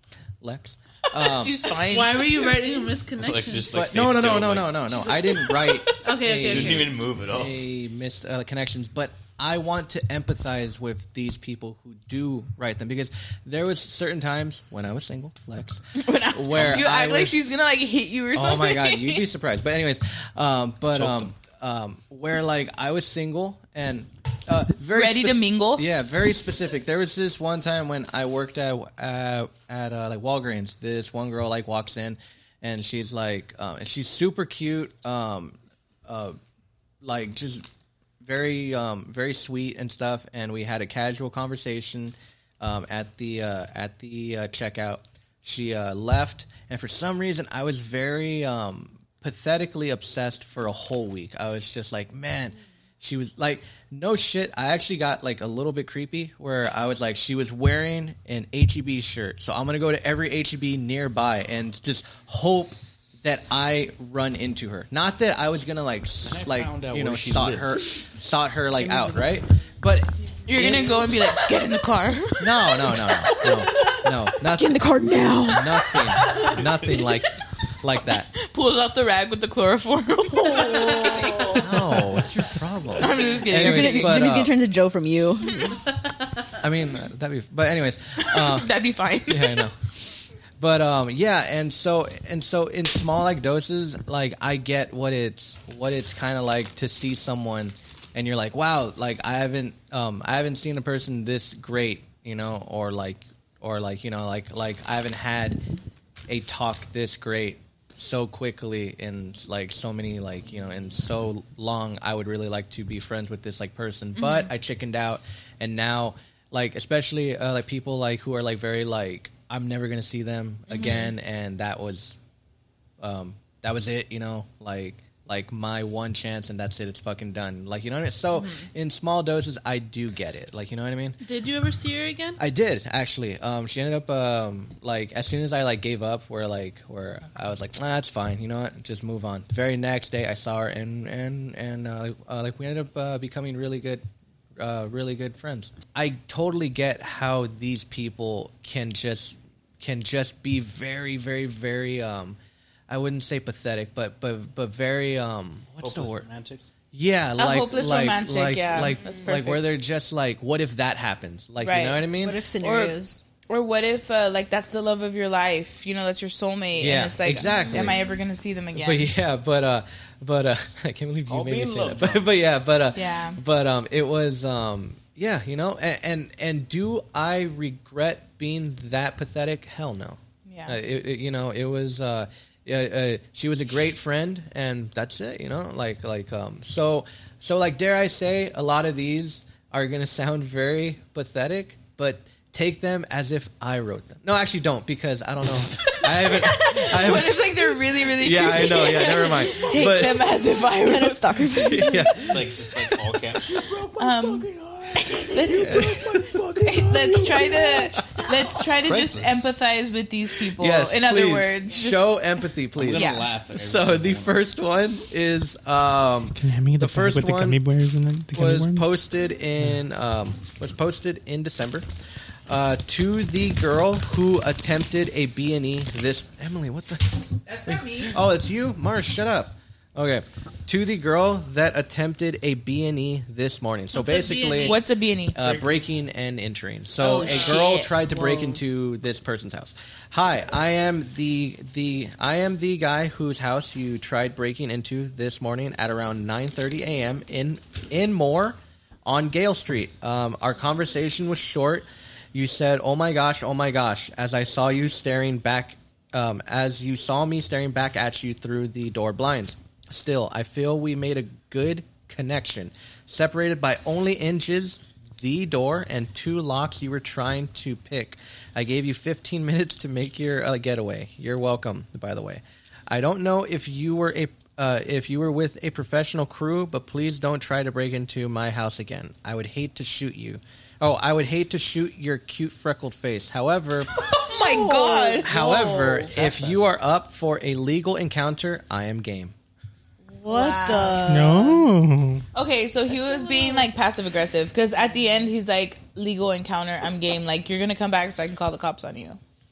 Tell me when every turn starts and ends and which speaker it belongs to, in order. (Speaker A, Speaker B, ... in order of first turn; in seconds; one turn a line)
Speaker A: 0.4-1.6
Speaker B: 1.1-2.7
Speaker C: 1.8-3.7
Speaker D: 3.2-5.1
Speaker A: 3.7-17.4
Speaker C: 5.5-6.9
Speaker D: 6.3-7.6
Speaker B: 16.0-19.2
Speaker A: 18.4-36.4
Speaker D: 20.9-21.3
Speaker B: 24.9-25.9
Speaker A: 37.0-37.7
Speaker A: 38.2-71.0
Speaker D: 66.2-67.8
Speaker E: 68.8-69.4
Speaker B: 70.5-73.6
Speaker A: 72.4-74.9
Speaker E: 74.5-75.8
Speaker A: 75.5-78.3
Speaker B: 78.3-81.8
Speaker E: 80.7-81.5
Speaker A: 81.5-84.5
Speaker B: 82.9-84.3
Speaker E: 83.5-85.8
Speaker A: 86.6-88.7
Speaker B: 88.3-89.7
Speaker A: 89.3-89.8
Speaker A: 90.6-105.6
Speaker A: 106.3-122.2
Speaker B: 114.2-114.5
Speaker B: 120.7-121.1
Speaker A: 123.0-131.2
Speaker C: 131.2-132.4
Speaker A: 132.4-144.0
Speaker A: 144.6-152.4
Speaker A: 152.9-156.2
Speaker D: 155.8-156.6
Speaker A: 156.9-162.4
Speaker B: 157.4-159.6
Speaker B: 161.6-162.0
Speaker E: 162.2-163.2
Speaker B: 162.6-163.0
Speaker B: 163.5-169.1
Speaker A: 166.8-168.1
Speaker A: 168.7-200.3
Speaker D: 171.3-172.3
Speaker B: 172.9-173.4
Speaker B: 180.5-180.8
Speaker B: 195.9-201.5
Speaker E: 200.8-202.3
Speaker A: 201.5-202.4
Speaker D: 202.2-207.7
Speaker B: 203.5-204.5
Speaker B: 205.1-212.1
Speaker A: 205.5-206.3
Speaker D: 208.9-209.3
Speaker A: 210.5-217.6
Speaker D: 212.8-214.4
Speaker B: 212.9-213.3
Speaker F: 216.3-219.0
Speaker A: 218.3-221.9
Speaker A: 222.5-283.9
Speaker C: 227.5-228.1
Speaker B: 227.8-228.1
Speaker C: 234.0-234.8
Speaker B: 234.5-235.4
Speaker E: 237.0-238.6
Speaker B: 237.1-237.8
Speaker B: 284.0-285.3
Speaker E: 284.3-286.1
Speaker A: 285.2-289.3
Speaker D: 286.1-286.6
Speaker E: 290.1-291.6
Speaker B: 290.3-291.2
Speaker F: 291.0-292.2
Speaker B: 292.3-299.2
Speaker E: 293.1-293.7